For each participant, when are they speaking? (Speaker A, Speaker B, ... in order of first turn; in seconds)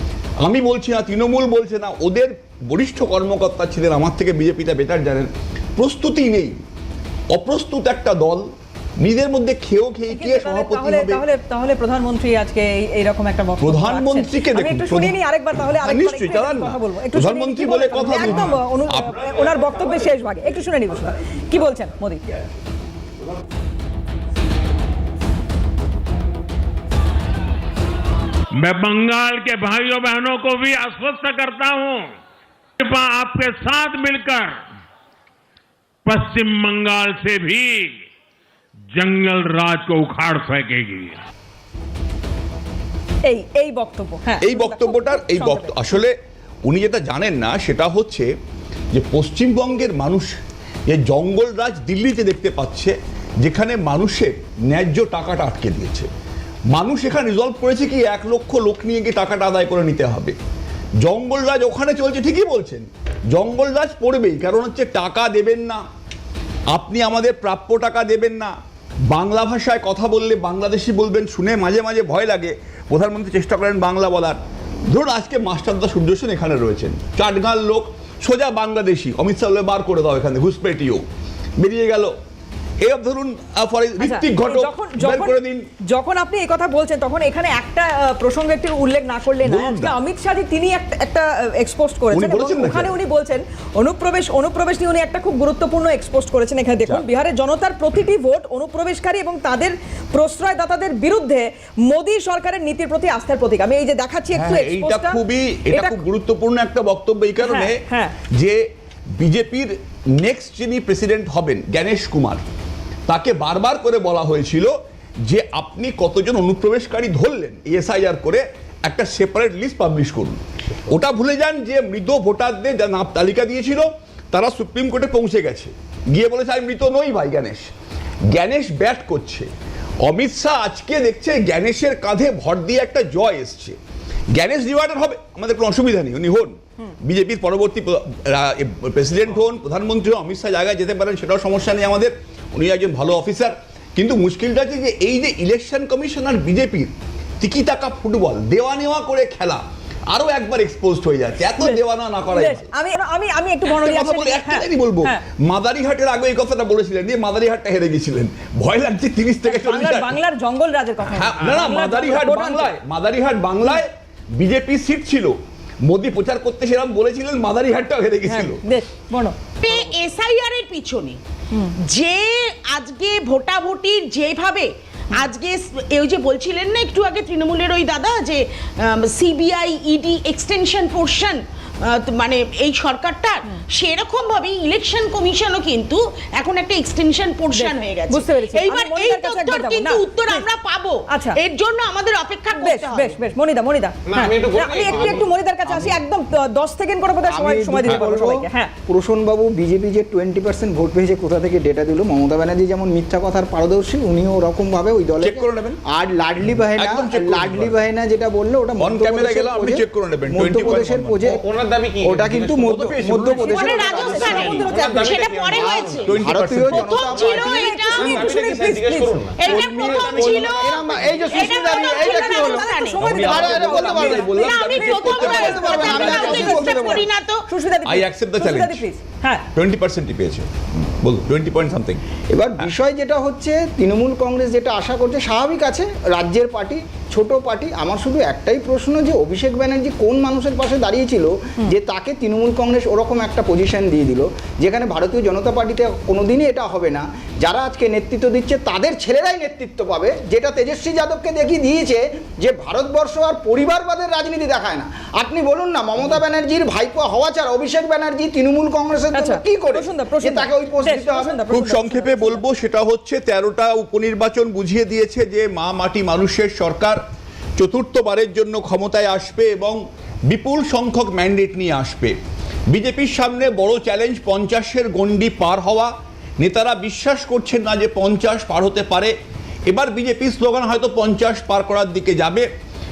Speaker A: 0.4-6.6, 7.3-11.2, 13.6-15.2, 15.8-19.2, 44.4-46.1, 46.6-48.3, 48.9-56.1, 56.7-60.4, 61.0-65.8, 66.7-68.5, 69.1-81.0, 81.6-82.1, 82.8-85.7, 89.4-90.0, 92.1-92.9, 104.3-108.7, 109.2-112.4, 113.1-127.7, 128.3-129.5, 130.0-133.8, 134.3-152.7, 153.7-160.2, 161.1-168.6, 205.2-205.8, 206.7-207.8, 208.8-211.2, 216.0-217.0, 223.0-226.7, 227.8-228.8, 229.5-232.0, 261.5-267.0, 267.6-272.1, 272.7-279.1, 279.6-282.5
Speaker B: 10.1-22.2, 43.2-45.8, 84.0-105.2, 105.7-106.0, 107.4-108.2, 152.3-155.2, 159.4-162.7, 168.3-169.3, 187.5-190.4, 191.1-191.4, 192.5-198.7, 217.4-219.2, 221.7-229.4, 259.1-262.4
Speaker C: 28.6-32.1, 32.8-34.6, 36.0-38.0, 38.9-41.1
Speaker D: 169.6-171.2, 171.8-193.2, 213.4-216.1, 216.7-218.2, 219.3-223.2, 223.7-227.4
Speaker E: 194.1-195.3, 211.2-216.1, 217.0-221.5
Speaker F: 195.7-195.9, 197.3-211.4, 212.0-218.5, 219.5-224.3, 225.0-227.0, 232.3-261.4